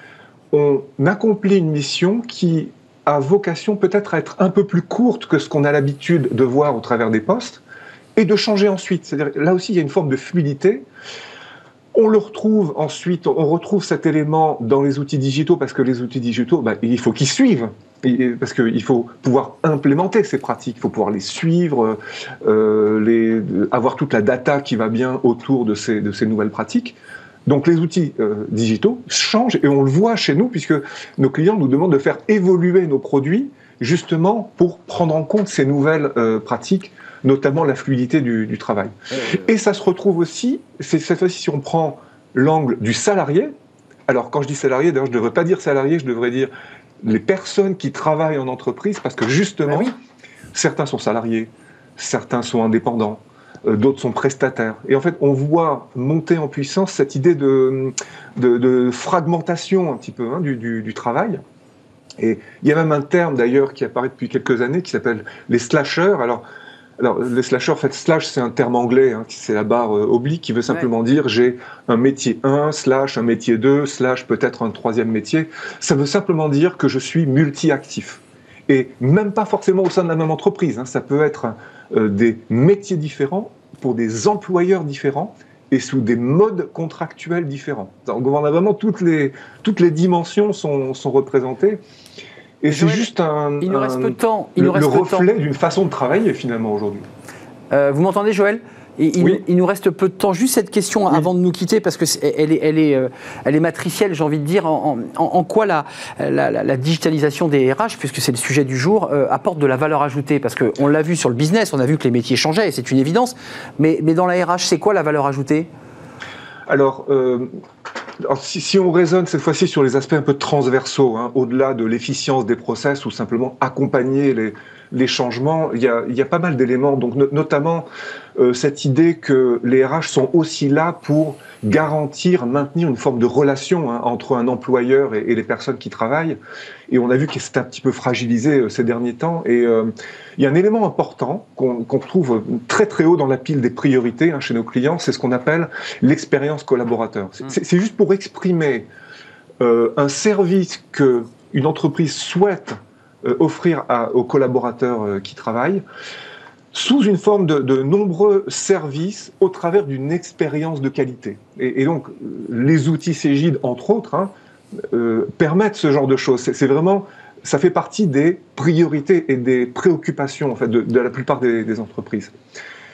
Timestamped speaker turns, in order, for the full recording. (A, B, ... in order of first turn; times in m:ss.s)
0:00.5-0:07.6 A
0:08.2-0:10.8 A
0:11.9-0:43.5 A
0:39.1-0:39.5 B
0:44.1-0:49.9 A
0:49.7-0:49.9 B
0:50.5-1:01.4 A
1:02.2-1:06.4 A
1:07.0-1:31.8 A
1:32.6-1:37.0 A
1:32.7-1:33.1 B
1:33.6-1:35.3 B
1:37.7-1:55.7 B
1:56.7-1:57.5 A
1:58.2-2:07.8 A
2:08.4-2:16.4 A
2:16.9-2:28.9 A
2:29.6-2:35.8 A
2:36.7-2:44.3 A
2:44.9-2:52.3 A